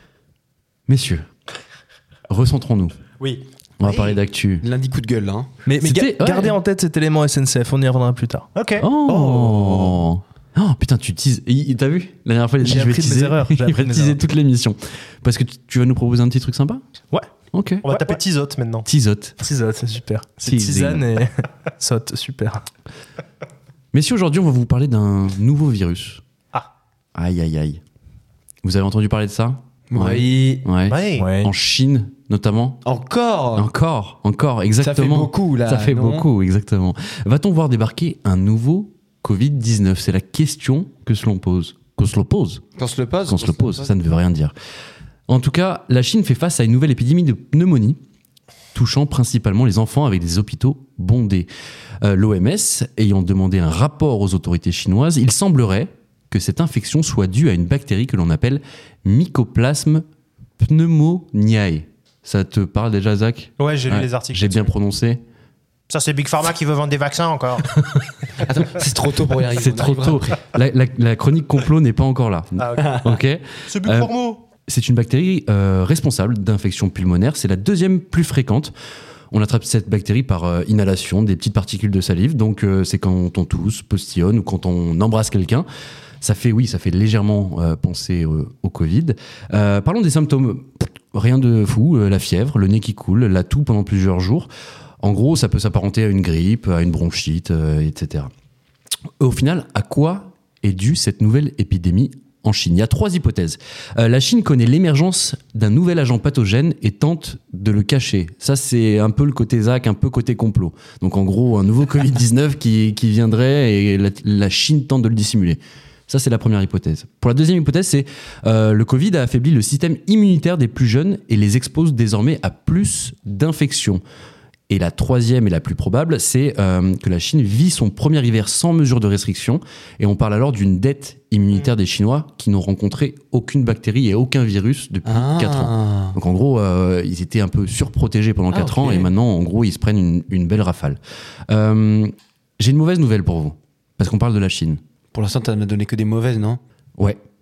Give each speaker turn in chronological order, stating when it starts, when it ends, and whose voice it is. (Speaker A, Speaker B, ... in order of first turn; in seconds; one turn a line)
Speaker A: 0.9-1.3
Speaker A: 2.3-3.0
Speaker B: 3.2-4.2
Speaker A: 3.8-4.6
Speaker C: 4.6-5.5
Speaker D: 5.7-8.5
Speaker A: 5.8-6.6
Speaker B: 8.5-8.9
Speaker A: 8.8-16.8
Speaker D: 12.6-14.2
Speaker A: 17.5-17.9
Speaker B: 17.8-18.9
Speaker A: 18.9-19.4
Speaker D: 19.4-22.6
Speaker A: 20.4-21.1
Speaker A: 23.9-26.2
Speaker A: 27.1-27.8
Speaker A: 28.6-32.8
Speaker C: 29.9-30.6
Speaker B: 30.9-31.3
Speaker D: 31.2-31.5
Speaker C: 32.8-33.7
Speaker A: 33.5-42.6
Speaker C: 34.8-36.3
Speaker C: 42.8-43.9
Speaker A: 43.2-44.5
Speaker A: 45.3-48.0
Speaker A: 48.7-51.5
Speaker A: 52.0-60.0
Speaker A: 60.6-65.2
Speaker B: 63.6-64.7
Speaker B: 65.9-67.7
Speaker A: 67.8-68.1
Speaker C: 68.4-70.4
Speaker A: 69.5-78.7
Speaker B: 72.6-73.1
Speaker B: 73.6-74.4
Speaker A: 79.3-85.7
Speaker A: 86.2-94.5
Speaker A: 95.0-98.3
Speaker A: 99.2-124.0
Speaker A: 124.7-144.8
Speaker C: 135.1-136.2
Speaker C: 138.5-139.1
Speaker C: 145.1-146.6